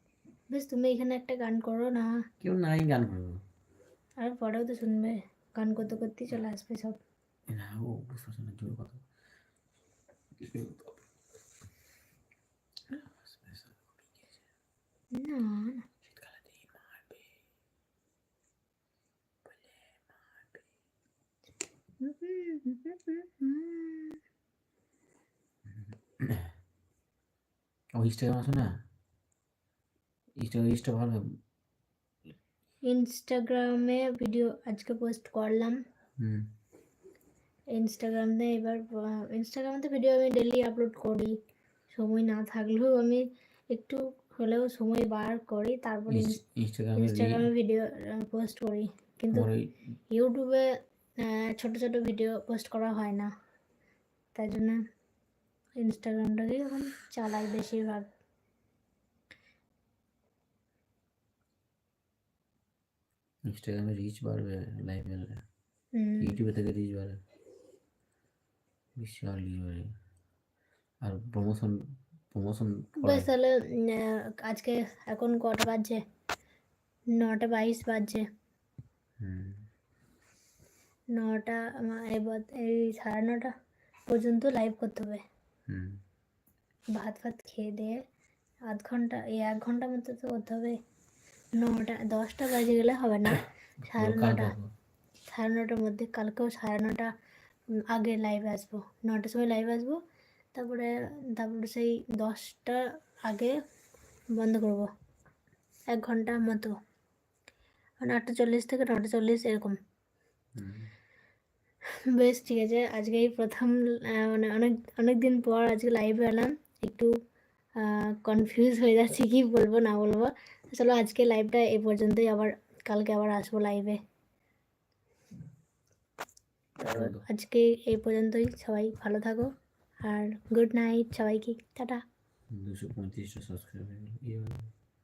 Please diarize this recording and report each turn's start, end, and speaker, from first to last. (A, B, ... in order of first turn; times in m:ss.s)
0:00.5-0:02.1 A
0:02.4-0:03.4 B
0:04.2-0:07.0 A
0:07.5-0:09.0 B
0:10.4-0:11.0 B
0:12.9-0:14.3 B
0:15.1-0:15.8 A
0:16.0-0:17.3 B
0:19.4-0:20.6 B
0:22.0-0:24.2 A
0:25.7-0:26.5 B
0:28.0-0:28.7 B
0:30.4-0:31.2 B
0:32.9-0:35.8 A
0:36.2-0:36.4 B
0:37.7-0:41.3 A
0:41.9-0:46.4 A
0:46.1-0:47.5 B
0:47.0-0:49.5 A
0:49.3-0:49.7 B
0:50.1-0:53.3 A
0:54.3-0:54.8 A
0:55.8-0:58.1 A
1:03.4-1:05.4 B
1:05.9-1:06.4 A
1:06.2-1:07.2 B
1:09.0-1:09.9 B
1:11.0-1:11.8 B
1:12.3-1:13.3 B
1:13.0-1:16.0 A
1:17.2-1:18.2 A
1:19.2-1:19.7 B
1:21.2-1:23.5 A
1:24.1-1:25.2 A
1:25.7-1:26.0 B
1:26.9-1:28.0 A
1:28.7-1:30.8 A
1:31.6-1:34.5 A
1:33.8-1:34.7 B
1:35.3-1:37.1 A
1:37.9-1:40.0 A
1:40.5-1:43.6 A
1:44.4-1:44.9 A
1:45.9-1:46.7 A
1:48.0-1:49.8 A
1:50.6-1:50.9 B
1:52.1-1:57.1 A
1:57.8-2:04.0 A
2:06.8-2:07.2 B
2:06.8-2:09.5 A
2:10.0-2:12.0 A
2:12.5-2:14.7 B